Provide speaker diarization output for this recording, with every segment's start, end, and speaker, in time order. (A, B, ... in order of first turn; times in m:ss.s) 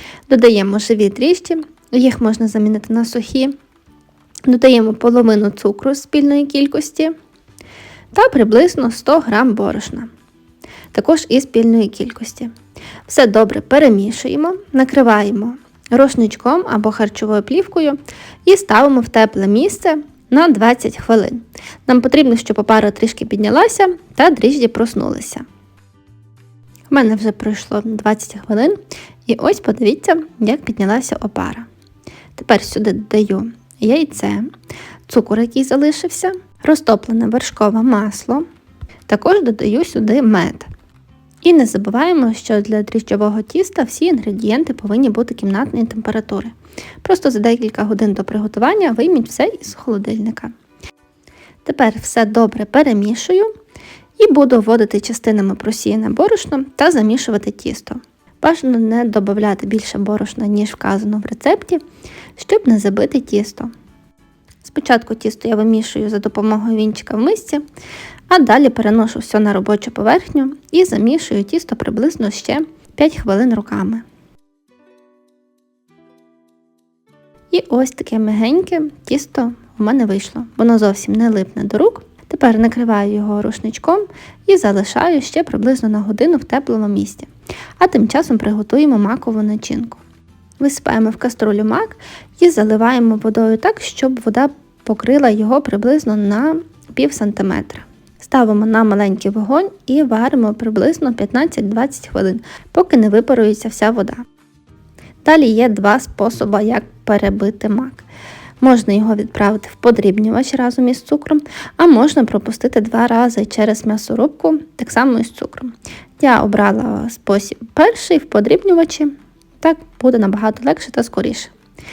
0:00.3-0:03.5 A
0:04.4-0:07.1 A
0:08.1-0:10.1 A
0:10.9-0:12.5 A
0:13.0-0:25.4 A
0:26.9-0:31.7 A
0:32.4-0:34.5 A
0:35.1-0:38.4 A
0:39.1-0:40.7 A
0:41.4-0:50.5 A
0:51.6-0:53.5 A
0:54.2-1:01.8 A
1:02.4-1:03.7 A
1:04.6-1:07.6 A
1:08.3-1:14.0 A
1:17.5-1:30.0 A
1:30.6-1:44.2 A
1:45.2-1:48.0 A
1:48.6-2:01.5 A